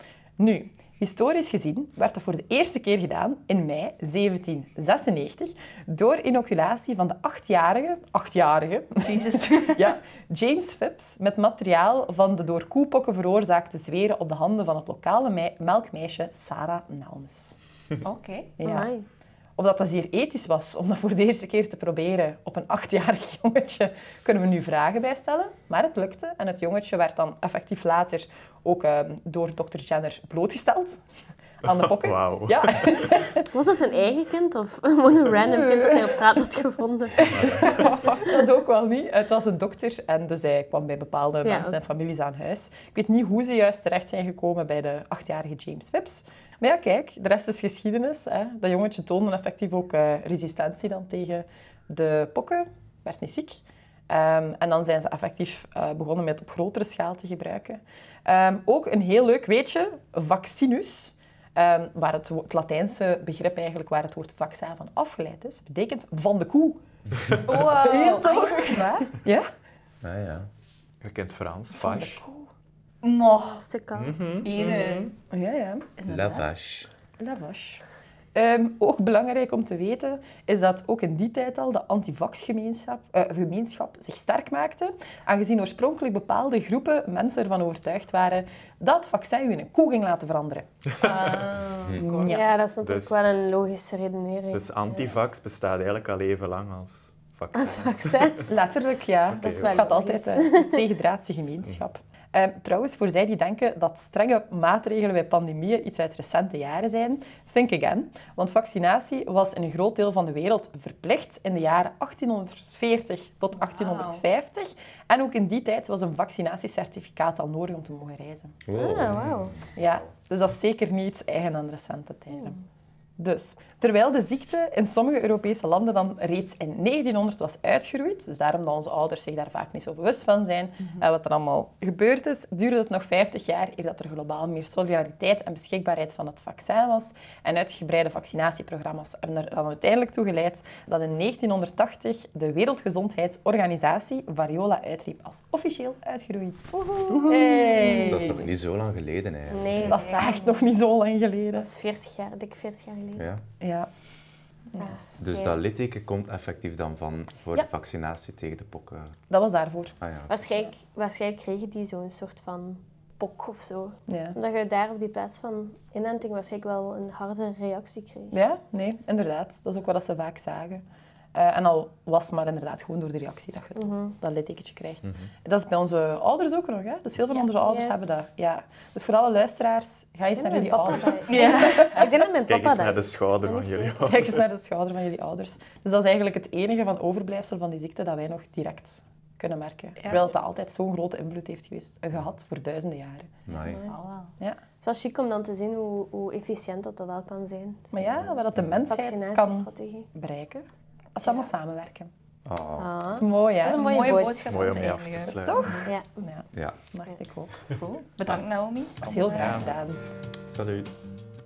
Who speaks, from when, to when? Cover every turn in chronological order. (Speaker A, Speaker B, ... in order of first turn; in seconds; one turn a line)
Speaker A: 0.4-17.6
Speaker B: 9.0-9.9
Speaker B: 18.0-18.5
Speaker A: 18.6-18.9
Speaker C: 18.6-19.1
Speaker A: 19.6-31.0
Speaker A: 31.6-33.5
Speaker D: 31.6-33.1
Speaker C: 33.5-38.3
Speaker A: 35.5-36.2
Speaker D: 37.3-37.8
Speaker A: 37.3-66.8
Speaker C: 41.4-41.8
Speaker B: 67.5-69.1
Speaker A: 67.6-69.5
Speaker E: 70.0-70.5
Speaker D: 71.0-72.2
Speaker A: 71.8-72.5
Speaker B: 73.0-73.6
Speaker C: 73.3-74.2
Speaker D: 74.0-75.1
Speaker B: 74.4-75.1
Speaker A: 75.3-75.9
Speaker B: 76.0-76.5
Speaker E: 76.0-76.9
Speaker A: 77.2-77.8
Speaker A: 78.3-91.1
Speaker D: 91.0-91.4
Speaker B: 91.0-92.4
Speaker A: 92.0-92.5
Speaker C: 92.2-95.2
Speaker D: 92.8-93.2
Speaker D: 94.5-98.5
Speaker C: 97.5-98.6
Speaker A: 98.5-118.6
Speaker D: 99.3-99.9
Speaker C: 99.4-100.8
Speaker B: 113.6-114.2
Speaker E: 118.7-119.6
Speaker C: 118.7-119.5
Speaker A: 119.8-122.6
Speaker A: 123.2-148.5
Speaker C: 146.7-148.3
Speaker E: 148.1-150.1
Speaker C: 149.5-150.6
Speaker A: 149.9-151.7
Speaker B: 149.9-150.3
Speaker C: 151.5-153.2
Speaker E: 153.2-153.4
Speaker A: 153.6-153.9
Speaker A: 154.7-155.2
Speaker C: 154.8-155.6
Speaker E: 155.2-159.1
Speaker A: 159.3-159.9
Speaker E: 160.0-160.4
Speaker C: 160.3-168.4
Speaker A: 164.1-164.4
Speaker A: 168.3-170.8
Speaker A: 171.3-182.1
Speaker C: 173.8-174.2
Speaker C: 177.6-178.0
Speaker C: 180.3-184.2
Speaker B: 181.3-182.1
Speaker D: 182.4-184.4
Speaker A: 184.1-193.4
Speaker B: 190.0-190.2
Speaker E: 193.4-193.8
Speaker B: 193.6-194.3
Speaker C: 194.8-198.0
Speaker A: 197.9-202.1
Speaker C: 198.8-200.1
Speaker C: 201.2-201.5
Speaker E: 202.4-202.9
Speaker C: 202.8-204.8
Speaker A: 203.1-204.1
Speaker B: 203.6-205.9
Speaker D: 204.4-205.9
Speaker A: 205.2-207.5
Speaker C: 205.8-206.2
Speaker B: 207.8-209.7
Speaker A: 209.0-210.0
Speaker D: 209.2-209.8
Speaker E: 210.5-210.9